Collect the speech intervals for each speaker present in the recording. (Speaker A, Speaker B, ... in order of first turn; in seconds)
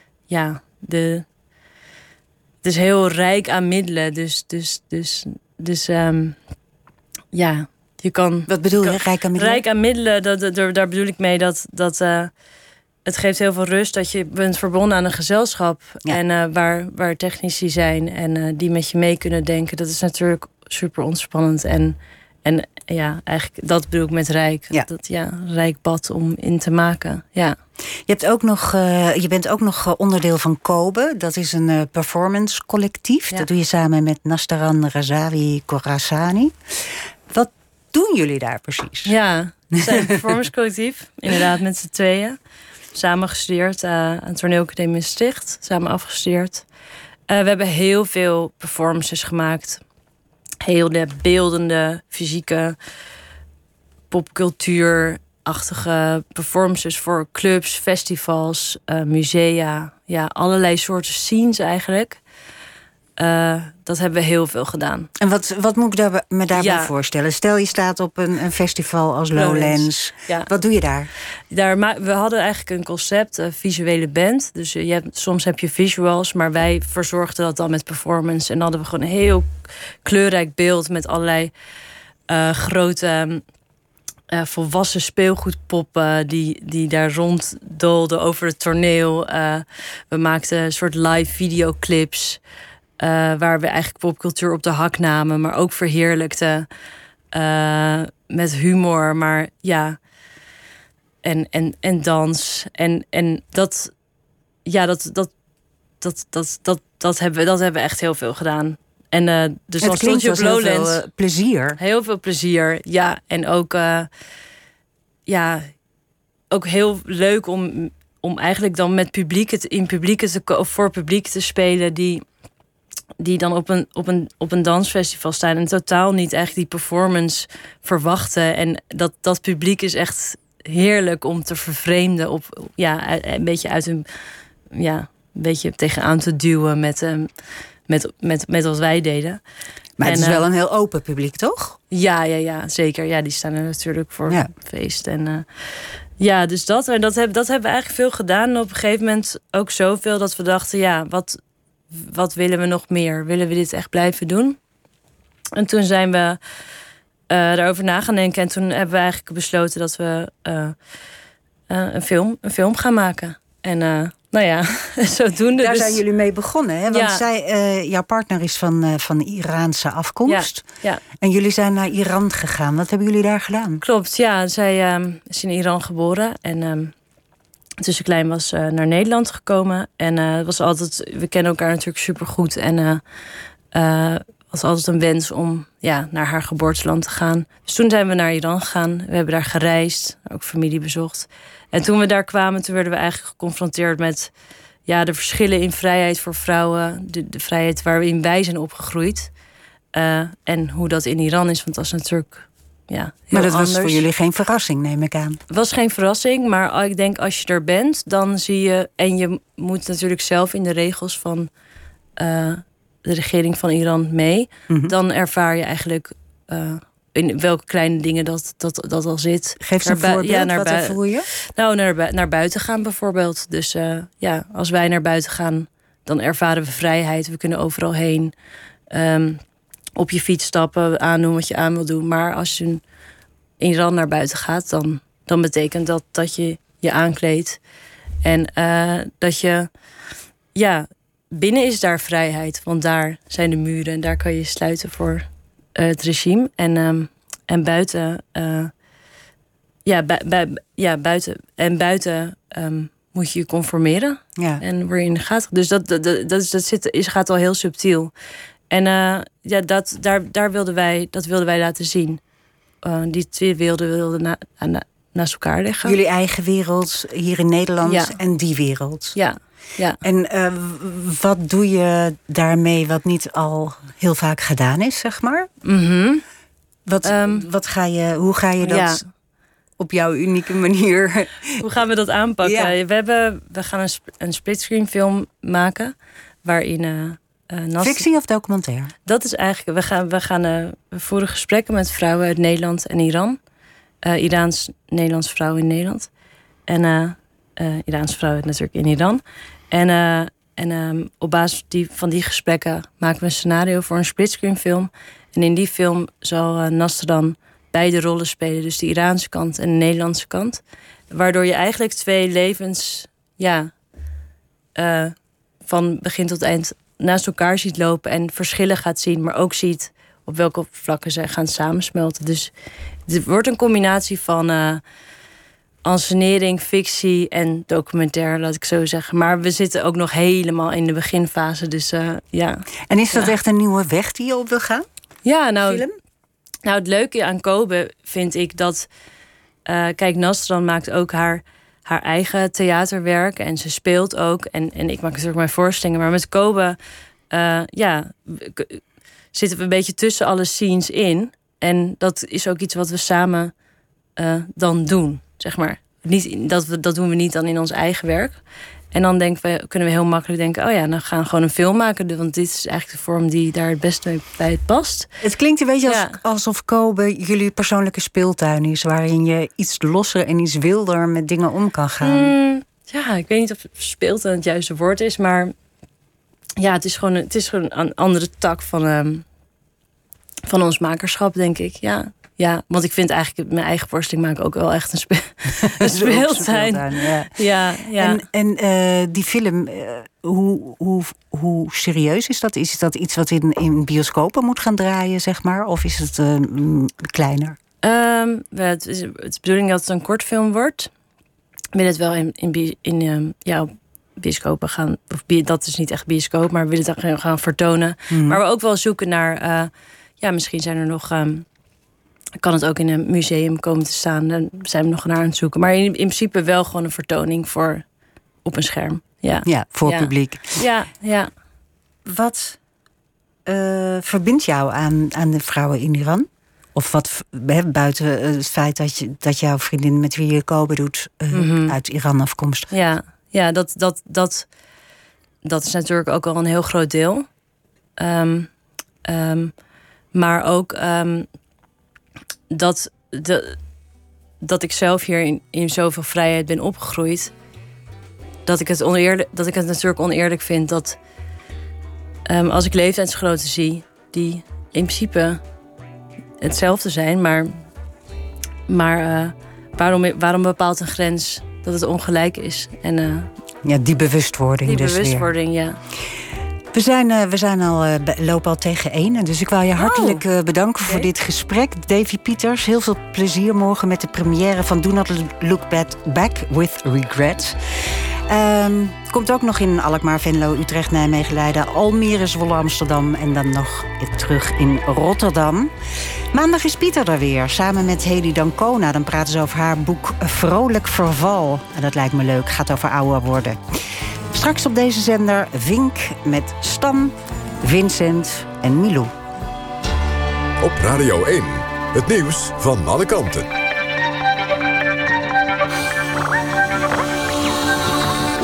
Speaker A: 0.3-1.2, 2.6-6.4, 7.3-12.3, 13.0-27.6, 39.0-42.4, 42.9-46.6, 47.3-49.8, 50.6-52.8, 54.1-62.2, 63.2-65.1, 66.5-66.9, 69.3-70.5, 71.5-81.5, 82.3-83.4, 84.3-92.4, 93.0-96.7, 97.3-100.0, 101.2-103.9, 104.6-105.3, 106.0-111.0, 111.8-114.1, 115.3-115.7, 116.5-122.2, 123.2-134.1, 134.7-137.3, 137.9-139.4, 140.0-140.4, 141.9-151.4, 151.9-154.6, 155.6-156.4, 157.3-160.7, 161.7-166.0, 166.9-167.2, 170.3-171.0, 173.8-176.9, 177.8-183.0, 183.7-194.3, 194.8-199.3, 199.9-204.1, 205.5-211.5, 212.2-221.0, 221.5-228.3, 228.9-229.4, 229.9-232.8, 233.6-237.6, 238.2-239.7, 240.5-248.7, 249.8-258.1, 258.7-262.2, 262.8-265.9, 267.8-268.1, 269.1-270.0, 275.6-276.2, 277.0-277.4, 278.6-279.0, 281.6-288.1, 289.1-293.4, 294.0-296.1, 296.7-313.7, 314.7-315.1, 315.6-322.5, 323.1-324.8, 325.8-333.3, 335.2-335.9, 336.6-338.9, 339.6-346.8, 347.3-348.8, 349.3-353.5, 354.1-358.4, 358.9-365.1, 365.9-366.2, 372.0-375.5, 376.6-379.2, 380.5-388.2, 397.8-400.9, 401.7-411.4, 412.4-417.8, 418.4-421.3, 431.3-431.8, 432.7-434.5, 435.4-437.3, 438.0-438.5, 439.0-439.6, 440.1-441.3, 442.5-443.6, 444.4-447.3, 448.4-451.0, 452.3-455.4, 456.4-457.6, 458.7-463.3, 464.6-465.8, 469.8-470.2
Speaker B: 8.5-9.6, 28.1-39.1, 39.8-40.1, 65.2-71.1, 109.8-111.8, 140.0-141.8, 165.6-173.8, 203.3-205.4, 214.7-214.9, 219.6-221.3, 254.4-254.6, 265.8-269.1, 270.0-275.5, 276.9-279.0, 279.8-281.6, 282.4-282.7, 287.8-288.9, 332.9-334.9, 335.6-335.9, 365.2-372.3, 385.6-387.4, 387.9-397.6, 408.1-408.4, 419.4-420.6, 422.0-422.6, 423.4-432.7, 463.6-465.3, 466.7-485.7, 486.3-499.1
Speaker C: 500.6-503.5